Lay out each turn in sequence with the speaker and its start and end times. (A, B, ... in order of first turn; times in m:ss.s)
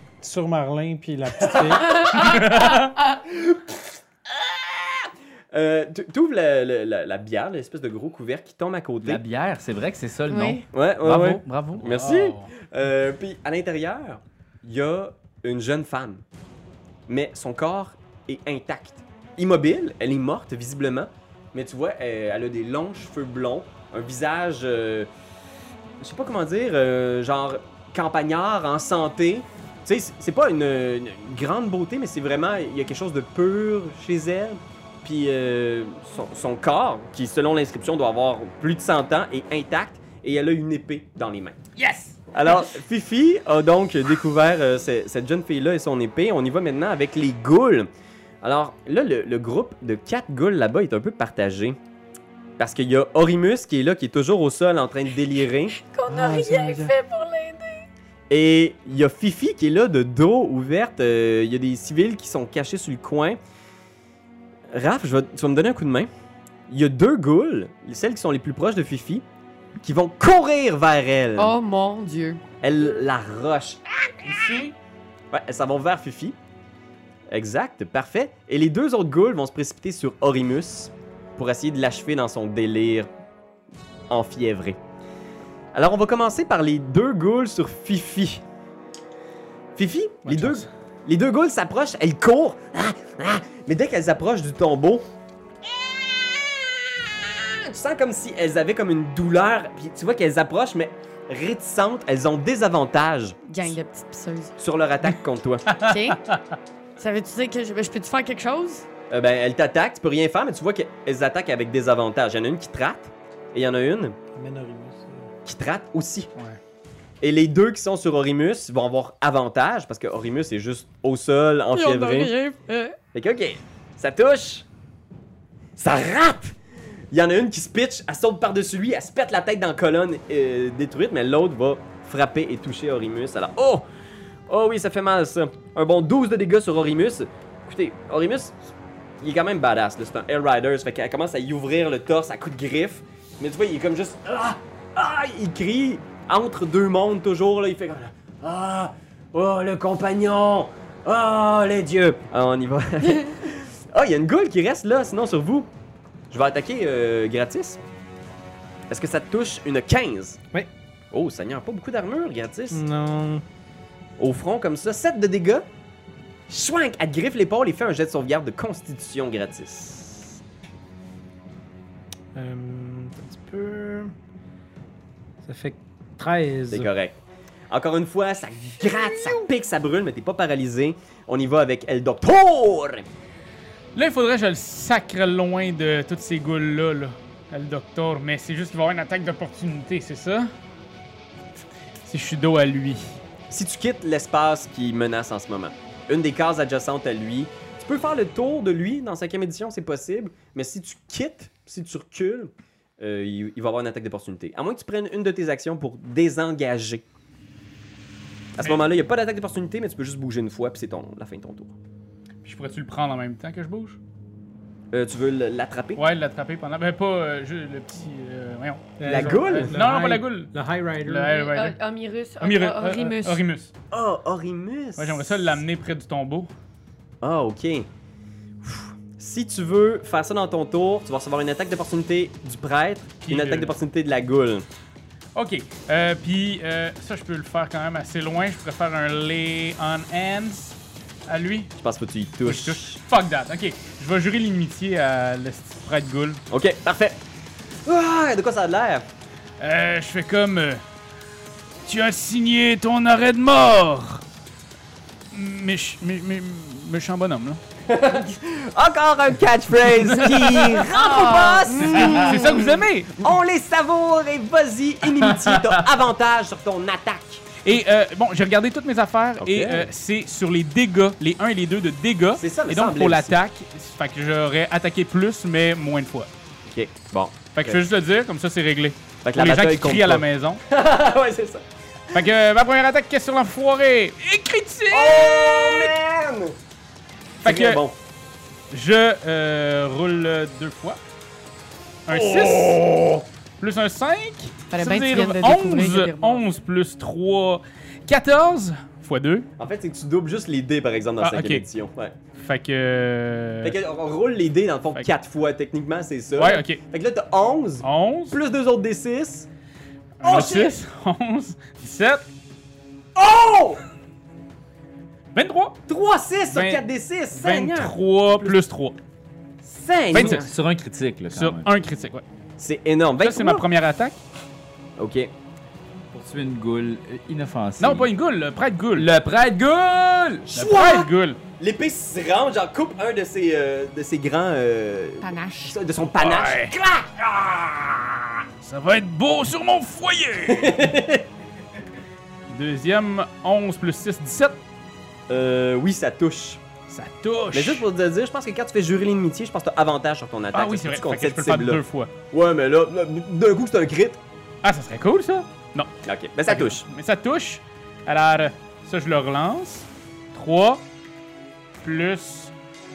0:00.2-0:01.9 A
0:01.4-0:09.2 B
0:01.8-0:02.9 C
0:02.4-0:02.8 D
0:09.0-0:12.1 E
0:10.3-0:10.6 C
0:10.7-0:16.2 B
0:11.9-0:12.5 D
0:17.1-0:25.1 B
0:26.0-0:41.6 B
0:41.8-0:42.2 E
0:42.3-0:47.9 B
0:48.4-0:51.8 B
0:52.6-0:55.8 B
0:55.8-0:57.9 C
0:56.1-0:56.9 A
0:58.3-1:03.4 B
1:04.7-1:06.1 B
1:06.7-1:09.2 B
1:09.8-1:11.6 B
1:11.4-1:12.5 C
1:12.6-1:14.5 B
1:14.2-1:14.8 D
1:15.3-1:16.4 B
1:17.3-1:23.1 B
1:24.1-1:24.8 B
1:25.7-1:28.4 B
1:29.8-1:35.0 B
1:30.2-1:30.7 D
1:35.6-1:43.8 B
1:43.5-1:44.6 C
1:44.6-1:45.8 B
1:45.7-1:46.4 D
1:45.7-1:46.4 C
1:47.0-1:48.8 C
1:49.1-1:54.2 B
1:54.4-1:55.3 A
1:55.5-1:56.3 B
1:57.2-2:02.3 B
2:01.7-2:03.0 C
2:03.1-2:04.7 B
2:05.8-2:06.6 B
2:07.1-2:13.8 B
2:14.5-2:18.6 B
2:19.2-2:35.7 B
2:36.3-2:37.8 B
2:38.9-2:40.4 B
2:41.1-2:42.8 B
2:42.7-2:43.4 A
2:44.2-2:45.7 B
2:46.5-2:50.4 B
2:52.4-2:54.1 A
2:55.4-2:56.9 A
2:56.7-2:57.2 B
2:57.7-3:03.0 B
3:04.0-3:10.5 D
3:12.1-3:13.2 D
3:13.5-3:27.0 B
3:28.6-3:31.8 B
3:28.6-3:28.9 D
3:32.4-3:34.0 D
3:34.9-3:36.0 B
3:36.0-3:40.5 D
3:39.0-3:41.4 A
3:39.1-3:39.8 B
3:41.0-3:41.8 D
3:41.3-3:43.4 C
3:42.4-3:43.7 D
3:43.9-3:45.6 B
3:45.0-3:46.5 D
3:47.2-3:47.9 B
3:48.6-3:54.7 B
3:53.2-3:53.7 D
3:55.4-4:01.7 D
4:01.8-4:03.0 B
4:02.4-4:06.4 D
4:06.5-4:07.2 B
4:07.8-4:09.1 B
4:09.6-4:10.8 D
4:11.9-4:14.2 D
4:15.3-4:17.6 D
4:17.9-4:22.6 B
4:20.3-4:22.7 C
4:21.3-4:23.2 D
4:23.1-4:27.5 B
4:25.2-4:25.7 E
4:27.6-4:36.3 D
4:29.4-4:29.9 B
4:32.4-4:33.4 B
4:36.7-4:37.8 B
4:37.5-4:40.6 D
4:39.2-4:42.3 B
4:42.1-4:45.9 D
4:44.9-4:46.6 B
4:47.4-4:47.8 D
4:47.4-4:48.0 B
4:48.7-4:51.0 D
4:52.1-4:52.9 D
4:52.1-4:53.2 B
4:53.6-4:59.5 D
4:54.7-4:56.4 C
4:59.6-5:02.2 B
5:01.2-5:01.6 D
5:02.4-5:03.8 D
5:03.6-5:09.5 B
5:06.4-5:06.8 D
5:07.8-5:08.4 D
5:10.2-5:12.2 D
5:10.2-5:10.8 B
5:13.2-5:13.8 B
5:15.3-5:15.8 D
5:15.9-5:18.0 B
5:16.5-5:19.0 D
5:19.6-5:20.5 B
5:20.1-5:20.5 D
5:20.1-5:21.7 E
5:21.3-5:22.2 D
5:22.6-5:23.7 B
5:23.2-5:24.2 D
5:25.0-5:25.3 B
5:26.1-5:28.1 E
5:27.8-5:29.1 D
5:29.0-5:30.5 E
5:30.4-5:38.4 B
5:30.6-5:31.4 D
5:35.2-5:35.8 C
5:36.2-5:36.8 D
5:38.6-5:40.9 D
5:40.4-5:41.3 B
5:42.5-5:44.6 D
5:45.3-5:46.6 B
5:46.9-5:47.9 D
5:47.5-5:54.2 B
5:50.5-5:52.1 D
5:54.6-5:56.0 D
5:56.0-5:56.9 B
5:56.5-6:00.8 D
6:01.8-6:02.5 D